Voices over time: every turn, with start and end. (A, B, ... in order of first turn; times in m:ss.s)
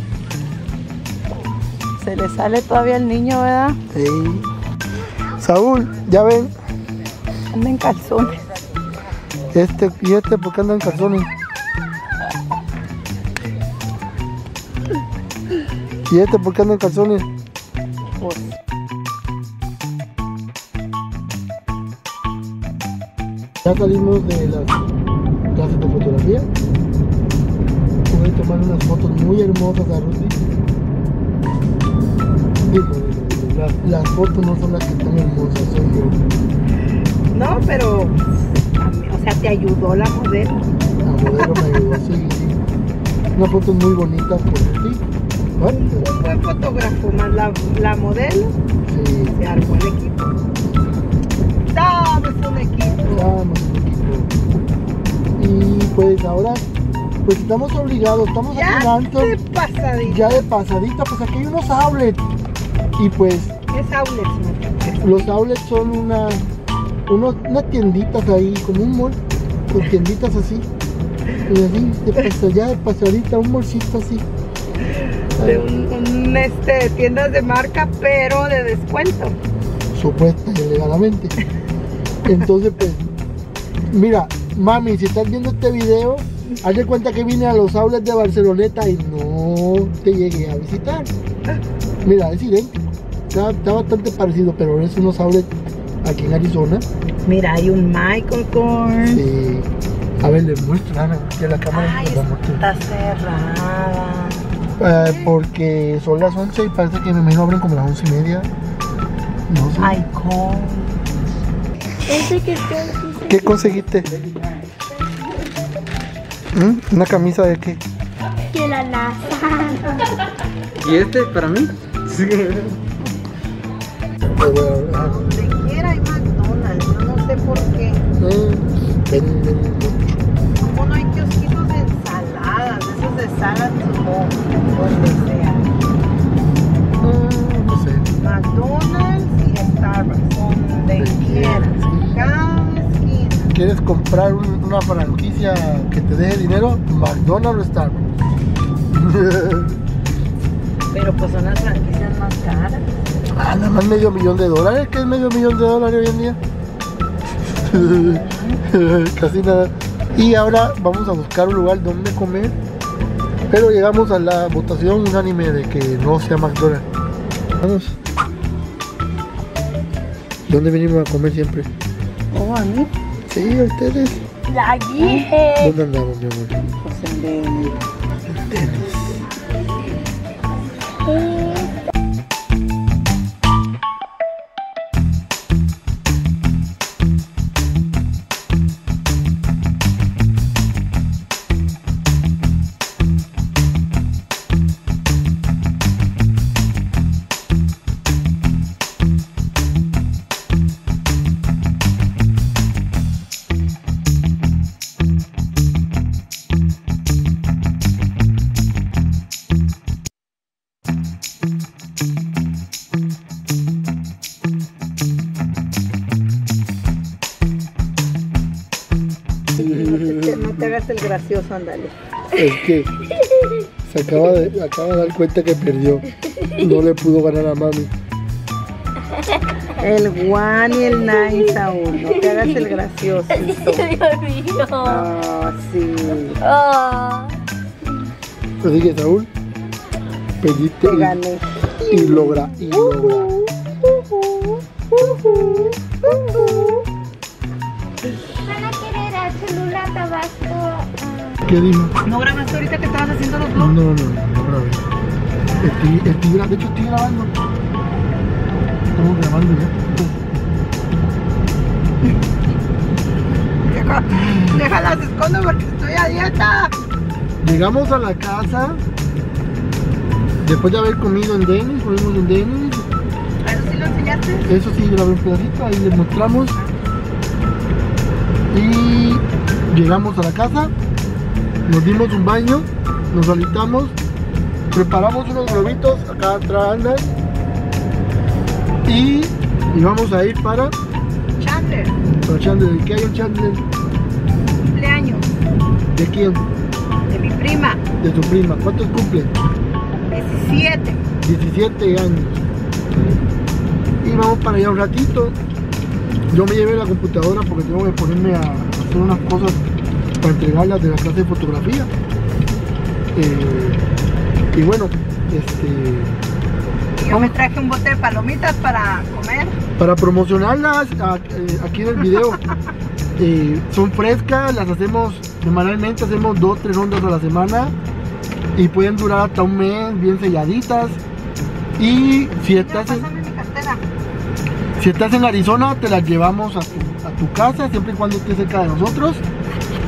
0:02.0-0:03.8 A
0:03.9-0:04.5 B
0:05.4-0:06.5 B
0:07.5-0:08.4 A
0:09.5-0:11.3 B
0:16.1-0:17.3 B
0:18.2-0:18.5 A
0:23.6-0:24.9 B
0:25.5-0:26.5 B
0:28.1-0:30.4 B
0:32.6-0:36.2 B
0:37.3-0:38.2 A
0:38.8-0:40.8 A
0:41.0-0:42.6 B
0:41.3-0:42.0 A
0:43.4-0:46.1 B
0:45.7-0:48.6 A
0:48.9-0:49.4 B
0:49.4-0:50.4 A
0:51.7-0:53.3 A
0:53.0-0:54.4 B
0:55.4-0:56.7 B
0:57.2-0:59.3 B
0:58.5-1:00.5 A
1:00.0-1:02.2 B
1:03.0-1:03.6 B
1:03.7-1:05.3 A
1:05.0-1:06.4 B
1:07.1-1:10.7 B
1:11.5-1:14.3 B
1:14.8-1:19.4 A
1:15.4-1:15.6 B
1:19.9-1:21.4 B
1:22.2-1:23.1 B
1:23.9-1:31.1 B
1:32.0-1:36.8 B
1:37.3-1:39.2 A
1:38.9-1:42.6 B
1:41.7-1:44.4 A
1:44.8-1:48.5 B
1:44.9-1:45.3 A
1:49.5-1:50.0 B
1:49.8-1:51.0 A
1:52.0-1:53.8 C
1:53.3-1:54.1 B
1:56.5-1:57.8 B
1:58.5-2:00.1 C
2:00.8-2:02.8 D
2:04.2-2:05.3 B
2:04.9-2:08.0 A
2:08.2-2:10.3 B
2:10.6-2:15.7 A
2:14.8-2:15.2 B
2:17.0-2:18.1 B
2:18.2-2:23.6 A
2:20.9-2:22.2 B
2:23.5-2:28.1 B
2:28.9-2:29.8 B
2:30.9-2:32.9 A
2:33.3-2:36.4 B
2:37.6-2:42.6 B
2:37.7-2:38.6 A
2:43.5-2:46.9 B
2:47.6-2:48.0 B
2:50.5-2:51.7 B
2:52.3-2:52.9 A
2:53.3-2:54.2 B
2:54.5-2:55.7 C
2:54.9-2:55.5 A
2:55.6-2:56.6 B
2:56.8-2:57.8 A
2:58.3-2:59.2 B
3:39.6-3:42.0 A
3:39.6-3:40.7 B
3:42.3-3:43.0 B
3:43.1-3:43.6 C
3:43.8-3:46.1 B
3:46.3-3:46.8 C
3:46.6-3:47.9 B
3:49.8-3:53.9 A
3:50.9-3:52.8 C
3:53.3-3:55.1 C
3:54.8-3:56.4 A
3:56.4-3:57.4 C
3:58.6-3:59.3 B
4:00.4-4:01.2 B
4:00.8-4:06.8 A
4:01.9-4:03.3 B
4:08.3-4:10.9 C
4:11.4-4:12.0 B
4:12.0-4:13.7 A
4:13.6-4:14.9 B
4:15.6-4:17.3 B
4:19.0-4:20.4 B
4:23.7-4:26.8 A
4:27.4-4:28.8 B
4:30.4-4:32.9 B
4:33.4-4:34.5 A
4:34.5-4:36.6 B
4:38.5-4:40.7 B
4:41.7-4:44.0 B
4:44.7-4:47.1 B
4:48.8-4:50.8 B
4:51.4-4:52.0 A
4:52.2-4:53.6 B
4:54.6-4:55.3 A
4:55.9-4:56.5 B
4:57.1-4:57.8 A
4:58.0-4:59.4 B
5:00.1-5:01.0 A
5:01.2-5:02.5 B
5:04.0-5:05.4 B
5:06.3-5:09.6 B
5:10.2-5:11.9 B
5:13.1-5:13.8 B
5:14.5-5:16.2 B
5:17.0-5:19.6 A
5:19.8-5:22.4 B
5:23.2-5:27.8 B
5:28.6-5:31.0 B
5:31.8-5:33.1 B
5:32.4-5:33.8 A
5:34.8-5:39.2 B